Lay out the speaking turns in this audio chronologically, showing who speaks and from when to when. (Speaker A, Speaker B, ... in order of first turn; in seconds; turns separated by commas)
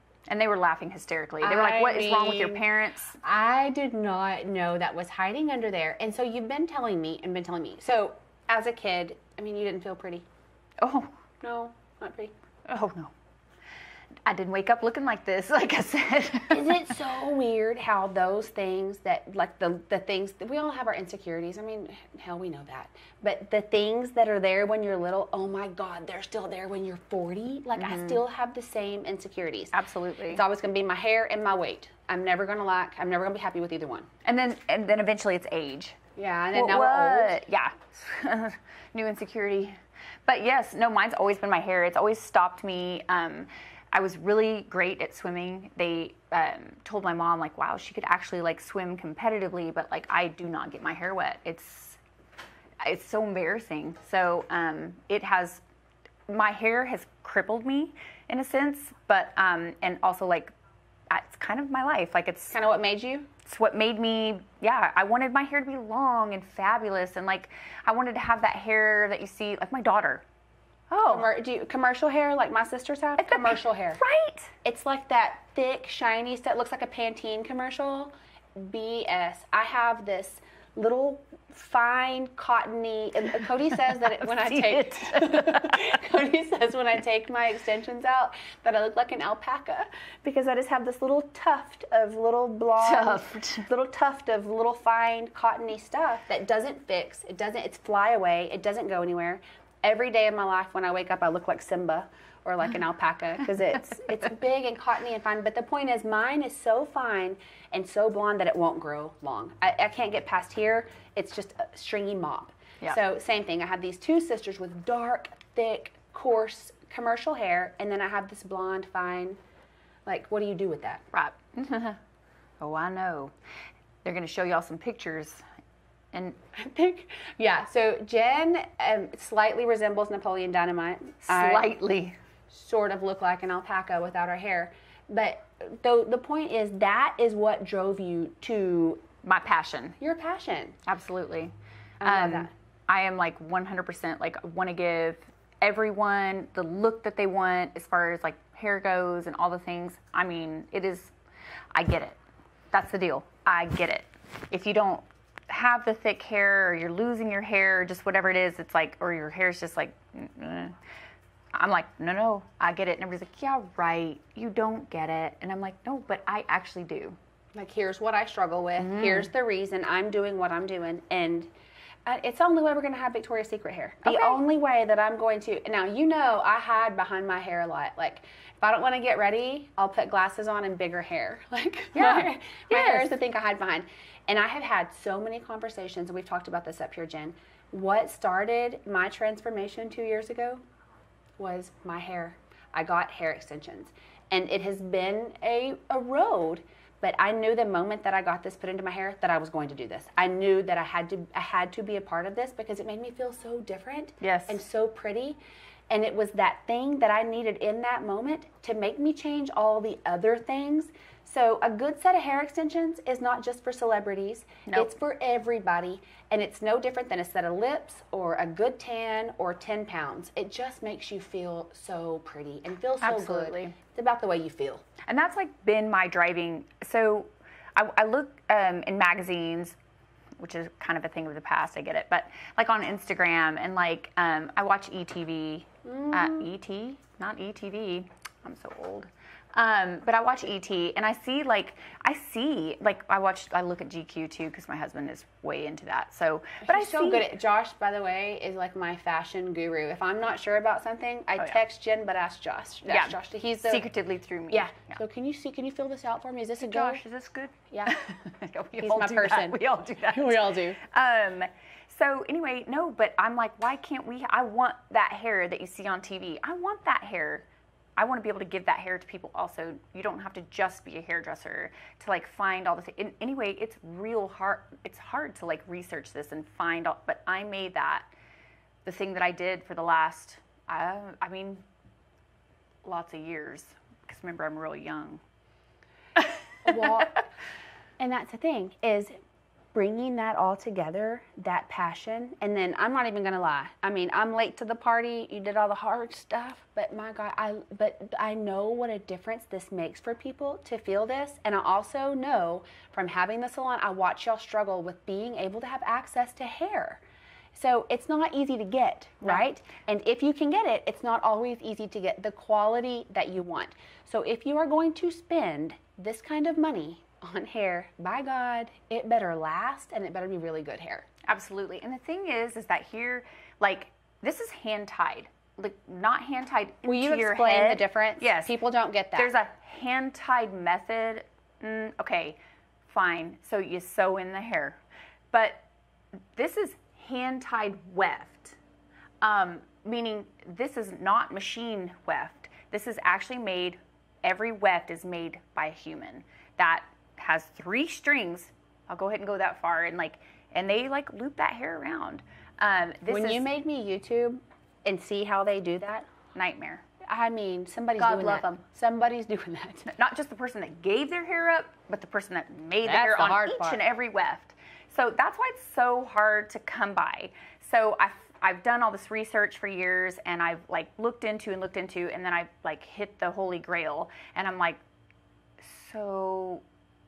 Speaker A: 0.3-3.2, Speaker B: 1.4-2.6, Speaker B: 3.2-10.3, Speaker A: 10.8-11.1, Speaker B: 11.4-12.3, Speaker A: 12.7-13.1, Speaker A: 14.3-16.9, Speaker B: 16.5-29.8, Speaker A: 27.8-28.2, Speaker A: 29.7-30.4, Speaker B: 30.3-34.1, Speaker A: 34.2-36.0, Speaker B: 36.2-37.4, Speaker A: 36.5-52.0, Speaker A: 52.8-55.6, Speaker A: 56.3-60.5, Speaker A: 61.1-62.6, Speaker B: 62.5-63.3, Speaker A: 63.5-70.2, Speaker A: 70.9-71.3, Speaker B: 71.0-74.0, Speaker A: 73.2-74.5, Speaker B: 74.6-119.4, Speaker A: 83.9-85.8, Speaker A: 92.8-93.7, Speaker B: 120.1-121.0, Speaker A: 121.1-122.0, Speaker A: 122.6-123.3, Speaker A: 124.0-125.4, Speaker A: 126.1-126.4, Speaker B: 126.5-131.7, Speaker A: 131.2-132.2, Speaker B: 132.5-139.1, Speaker A: 139.2-140.0, Speaker B: 140.0-140.8, Speaker A: 140.9-151.1, Speaker B: 142.0-142.5, Speaker A: 151.7-152.2, Speaker A: 152.7-160.8, Speaker A: 161.5-167.2, Speaker B: 167.5-171.5, Speaker A: 168.8-169.3, Speaker B: 172.1-190.6, Speaker A: 174.1-174.4, Speaker A: 181.9-183.2, Speaker B: 191.4-205.4, Speaker A: 204.2-204.6, Speaker B: 205.9-224.8, Speaker A: 214.7-214.9, Speaker A: 223.0-223.8, Speaker A: 225.1-229.8, Speaker A: 230.4-247.3, Speaker B: 235.8-236.5, Speaker B: 246.6-253.9, Speaker A: 252.9-255.0, Speaker B: 254.5-257.0, Speaker A: 256.6-267.5, Speaker B: 257.7-258.0, Speaker B: 258.7-260.8, Speaker A: 268.0-278.1, Speaker A: 278.9-281.6, Speaker A: 282.9-285.2, Speaker A: 286.2-287.2, Speaker B: 286.6-287.3, Speaker B: 288.0-289.2, Speaker B: 289.7-307.0, Speaker B: 307.5-321.1, Speaker A: 321.3-328.6, Speaker B: 326.9-329.3, Speaker A: 329.1-334.8, Speaker A: 335.3-335.7, Speaker A: 336.4-338.6, Speaker A: 339.2-353.5, Speaker B: 353.1-356.1, Speaker A: 356.4-356.9, Speaker B: 357.0-359.9, Speaker A: 358.0-358.6, Speaker A: 359.9-374.8, Speaker B: 362.8-363.8, Speaker A: 375.6-376.6